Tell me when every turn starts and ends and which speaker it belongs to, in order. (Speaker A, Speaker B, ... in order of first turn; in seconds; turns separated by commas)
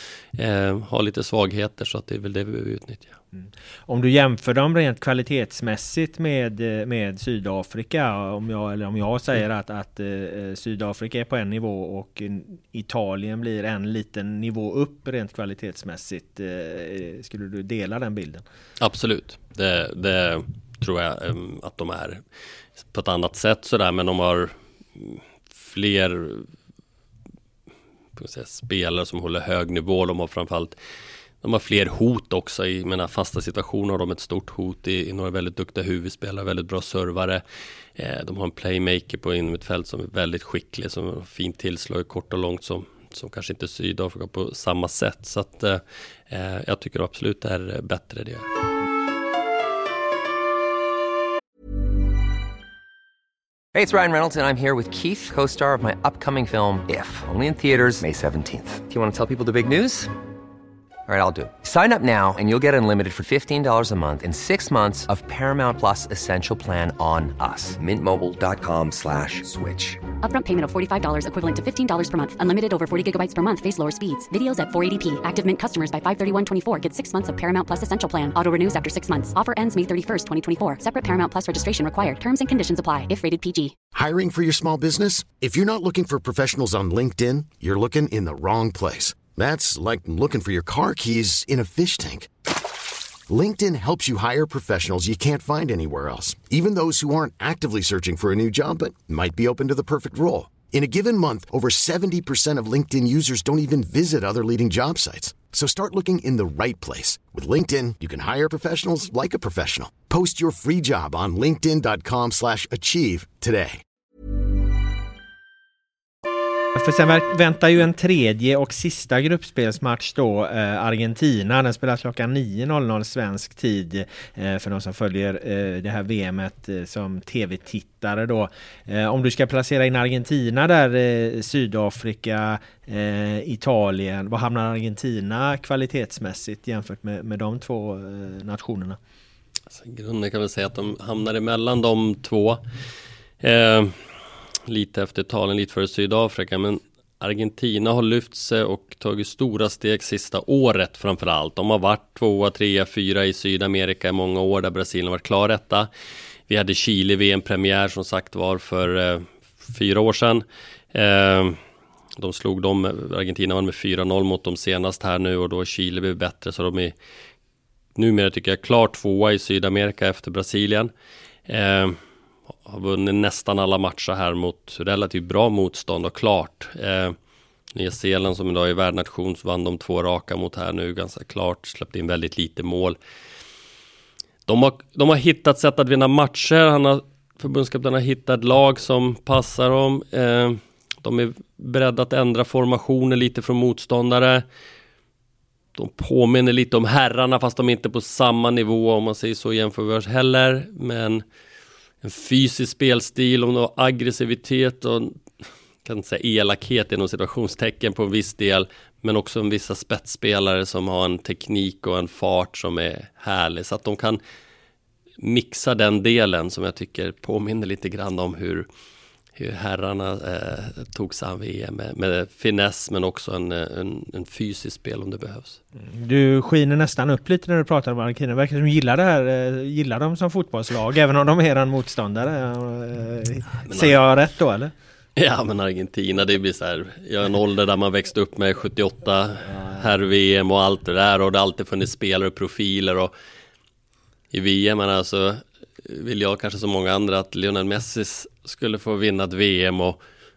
Speaker A: 0.3-3.2, Speaker B: 3.3-18.4, Speaker A: 18.8-22.2, Speaker A: 22.9-26.5, Speaker A: 28.2-30.8, Speaker A: 31.4-37.4, Speaker A: 38.0-48.5, Speaker C: 53.7-60.1, Speaker C: 61.1-70.1, Speaker D: 70.2-83.7, Speaker E: 84.0-92.3, Speaker E: 93.3-113.8, Speaker B: 116.8-139.0, Speaker A: 139.7-142.6, Speaker A: 143.4-143.9, Speaker A: 144.7-155.9, Speaker A: 156.5-161.6, Speaker A: 162.2-166.9, Speaker A: 168.0-170.9, Speaker A: 171.5-172.0, Speaker A: 172.7-177.2, Speaker A: 177.7-183.0, Speaker A: 184.5-194.4, Speaker A: 195.8-201.2, Speaker A: 202.0-205.2, Speaker A: 205.8-214.2, Speaker A: 215.2-218.7, Speaker A: 219.4-225.6, Speaker B: 225.8-234.7, Speaker A: 233.7-234.0, Speaker A: 235.2-243.1, Speaker B: 239.5-239.8, Speaker A: 244.3-250.0